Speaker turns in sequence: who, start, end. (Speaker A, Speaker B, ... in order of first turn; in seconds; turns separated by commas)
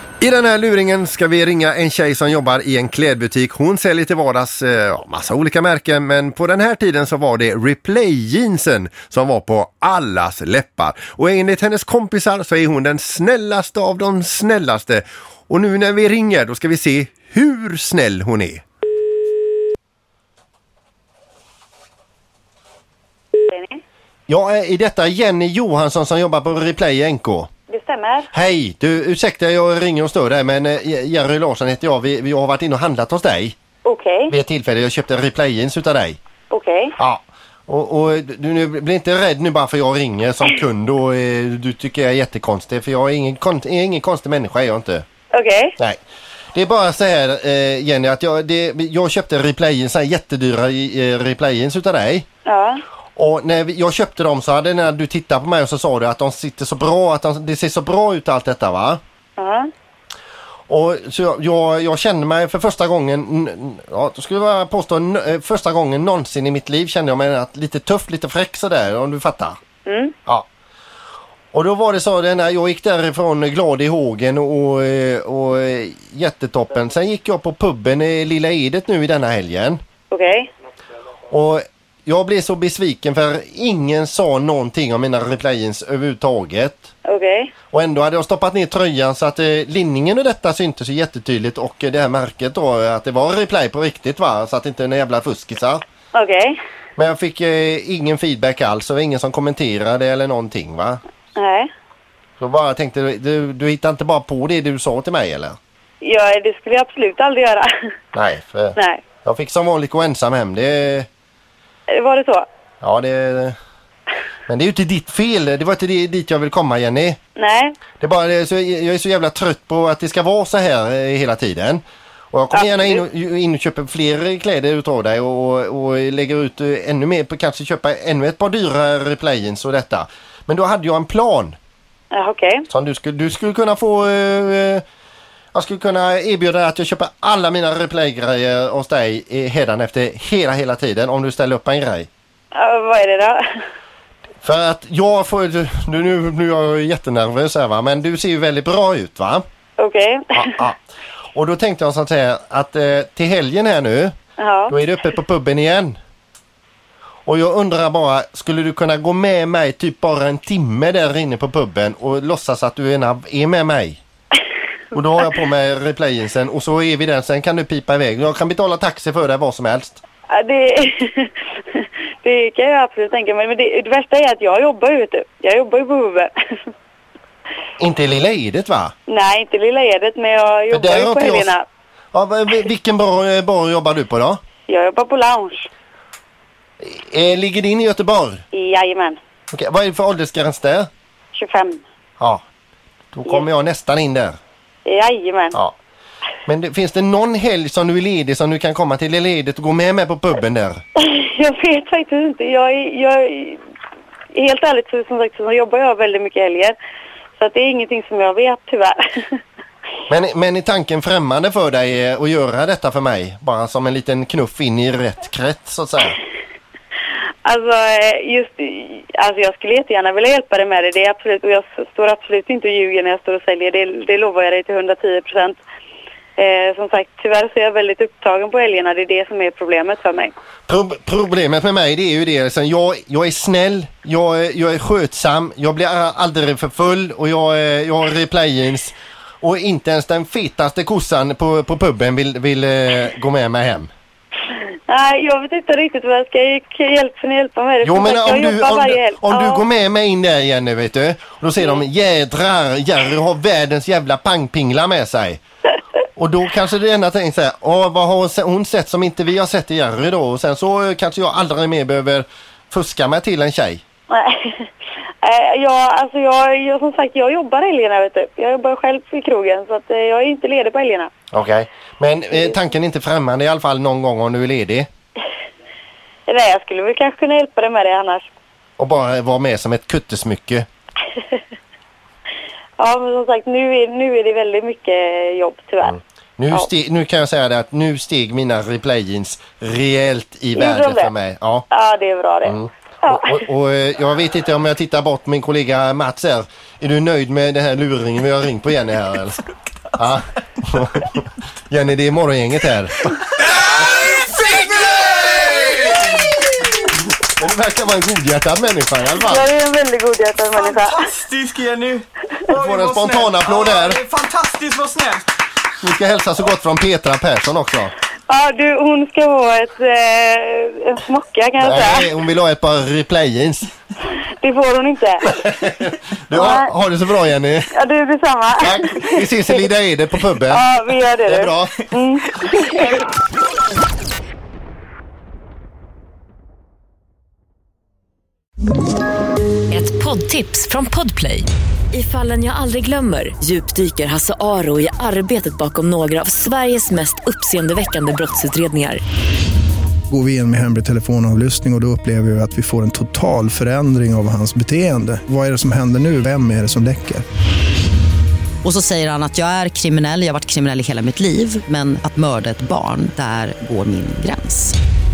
Speaker A: 0.2-18.6, Speaker B: 23.4-23.8, Speaker A: 24.3-27.5, Speaker B: 27.7-28.3, Speaker A: 28.3-33.6, Speaker B: 33.8-34.3, Speaker A: 34.3-36.2, Speaker B: 36.5-36.9, Speaker A: 37.0-45.0, Speaker B: 45.3-45.8, Speaker A: 46.5-52.3, Speaker B: 52.5-52.8, Speaker A: 53.2-59.0, Speaker B: 59.4-59.7, Speaker A: 60.7-69.6, Speaker B: 69.8-70.2, Speaker A: 71.5-79.8, Speaker B: 80.1-80.5, Speaker A: 81.3-86.9, Speaker B: 87.0-87.5, Speaker A: 87.7-95.8, Speaker B: 96.1-96.6, Speaker A: 97.0-101.0, Speaker B: 101.4-101.7, Speaker A: 102.4-105.6, Speaker B: 106.0-107.7, Speaker A: 108.1-111.1, Speaker B: 108.8-109.0, Speaker B: 111.9-112.5, Speaker A: 112.8-113.5, Speaker A: 114.5-117.2, Speaker B: 117.4-117.8, Speaker A: 118.0-131.6, Speaker B: 122.5-123.0, Speaker B: 132.1-132.7, Speaker A: 132.7-134.8, Speaker A: 135.5-142.1, Speaker B: 142.5-143.4, Speaker A: 144.4-149.4, Speaker B: 149.8-150.5, Speaker A: 150.3-150.8, Speaker A: 151.3-154.1, Speaker B: 154.4-154.7, Speaker A: 154.7-156.0, Speaker A: 157.3-164.0, Speaker A: 164.9-170.0, Speaker B: 170.3-176.3, Speaker A: 177.8-178.9, Speaker B: 179.1-181.7, Speaker A: 180.7-181.5, Speaker A: 182.1-184.4, Speaker B: 184.7-185.7, Speaker A: 186.8-188.4, Speaker B: 188.5-189.2, Speaker A: 189.5-190.9, Speaker B: 191.3-191.8, Speaker A: 193.2-194.4, Speaker B: 194.8-195.6, Speaker A: 196.5-200.8, Speaker B: 201.0-203.6, Speaker B: 204.3-206.8, Speaker B: 207.4-209.4, Speaker A: 210.1-216.2, Speaker B: 217.4-225.6, Speaker B: 226.4-230.3, Speaker A: 230.7-243.9, Speaker B: 244.9-249.6, Speaker A: 247.8-255.4, Speaker A: 256.2-263.8, Speaker B: 264.1-264.7, Speaker B: 265.2-271.1, Speaker A: 271.3-274.9, Speaker B: 276.3-278.3, Speaker A: 278.8-280.7, Speaker B: 282.8-286.0, Speaker A: 286.4-291.7, Speaker B: 290.6-291.1, Speaker B: 291.7-293.4, Speaker A: 292.5-299.4, Speaker A: 299.9-303.3, Speaker C: 303.5-306.3, Speaker A: 307.2-309.5, Speaker B: 309.2-311.0, Speaker C: 310.6-315.3, Speaker A: 312.6-314.0, Speaker A: 315.8-317.9, Speaker B: 318.3-322.1, Speaker A: 321.6-323.7, Speaker B: 324.1-325.3, Speaker A: 325.4-327.7, Speaker B: 326.3-326.7, Speaker B: 327.7-329.6, Speaker A: 328.6-330.7, Speaker B: 330.5-333.0, Speaker A: 331.3-331.8, Speaker D: 339.7-349.0, Speaker E: 350.1-357.2, Speaker F: 358.6-364.8